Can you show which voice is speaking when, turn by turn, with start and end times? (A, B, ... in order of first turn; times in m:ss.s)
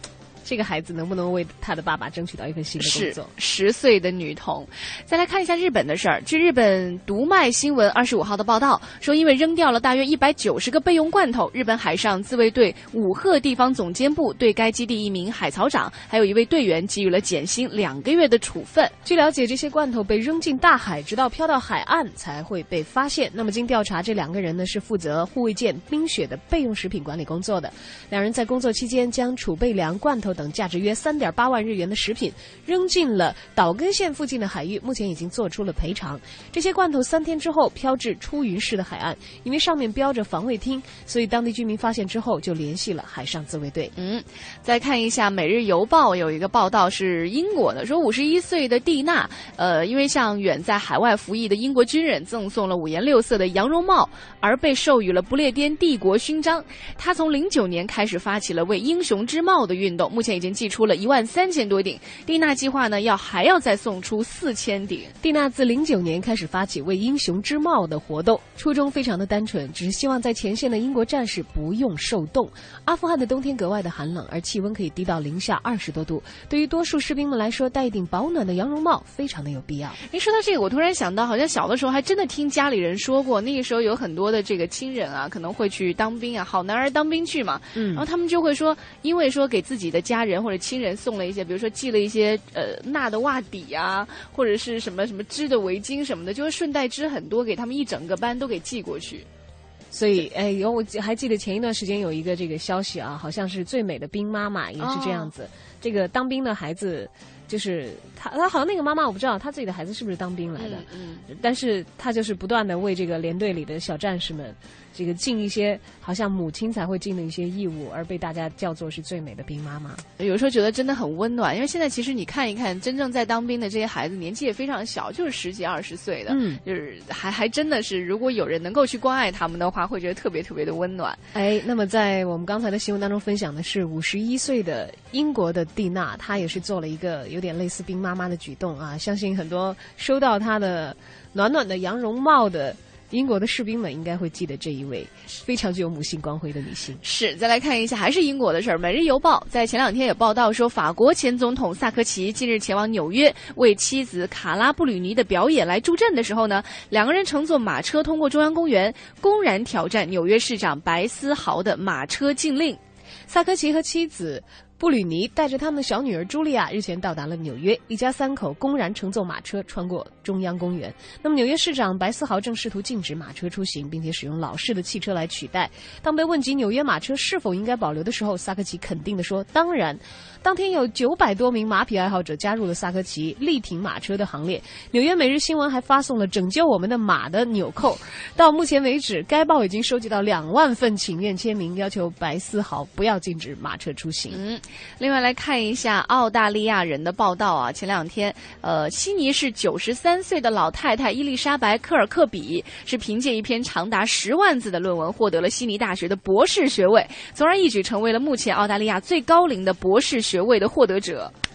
0:00.4-0:03.3 A
0:02.8-0:19.0 B
0:19.0-0:43.9 A
0:44.0-1:05.1 B
1:05.2-1:20.0 A
1:20.0-1:39.3 B
1:27.8-1:28.0 A
1:39.9-2:00.0 A
1:44.8-1:45.3 B
1:50.6-1:51.2 B
2:00.2-2:11.2 B
2:06.3-2:06.6 A
2:11.3-2:27.0 A
2:27.0-2:42.8 B
2:43.3-3:14.4 A
3:14.3-3:31.3 B